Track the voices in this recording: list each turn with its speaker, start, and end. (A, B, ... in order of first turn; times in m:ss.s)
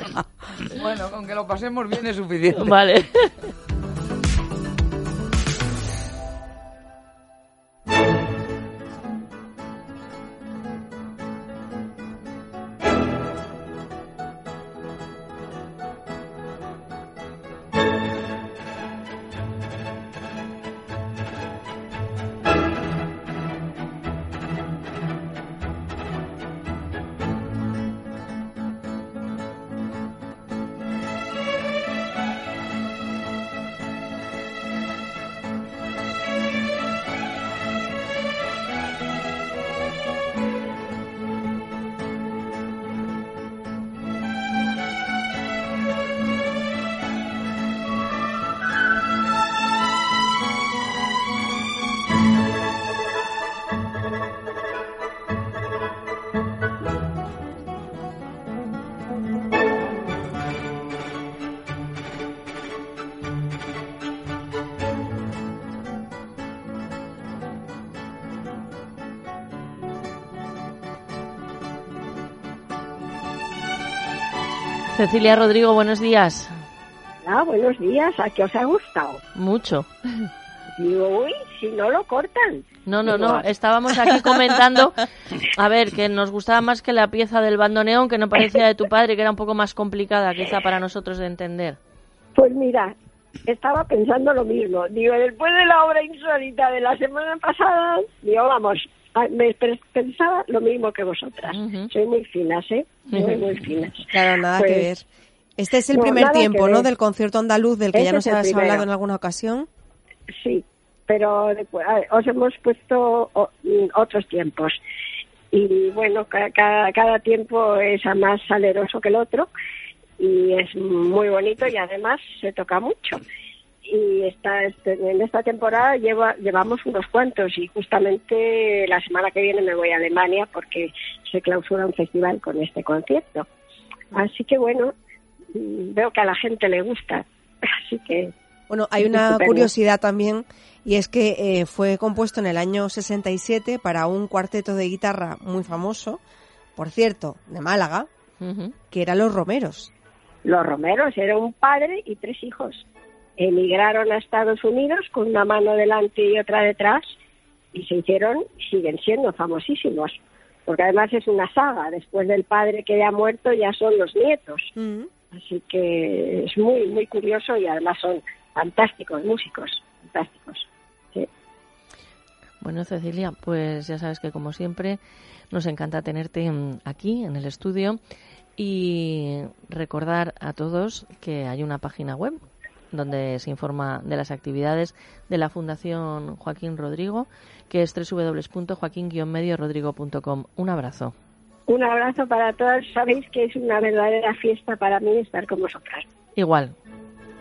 0:00.7-0:02.8 A
0:02.6-0:03.4 B
1:15.0-1:16.6 B
1:17.2-1:19.2 C
1:19.4-1:19.9 B
1:20.8-1:23.5 C
1:22.9-1:31.8 B
1:32.4-1:32.9 C
1:33.4-1:44.9 C
1:41.5-1:41.9 B
1:43.1-1:43.5 B
1:44.1-1:45.0 D
1:45.6-1:49.7 D
1:45.9-1:46.9 C
1:47.9-1:48.9 C
1:50.4-1:54.8 C
1:55.5-1:59.5 C
2:00.2-2:03.2 C
2:03.9-2:13.5 C
2:14.1-2:14.9 C
2:15.6-2:18.3 C
2:18.7-2:26.2 D
2:19.0-2:19.7 C
2:26.8-2:28.1 D
2:28.4-2:28.7 B
2:28.9-2:29.9 D
2:30.5-2:32.8 C
2:33.4-2:37.1 C
2:37.7-2:40.2 C
2:40.7-2:44.7 C
2:44.8-2:45.1 D
2:45.3-2:51.3 C
2:52.6-2:55.0 B
2:55.5-2:58.0 B
2:58.6-3:02.4 B
3:02.9-3:11.1 B
3:11.7-3:16.0 C
3:16.4-3:16.8 B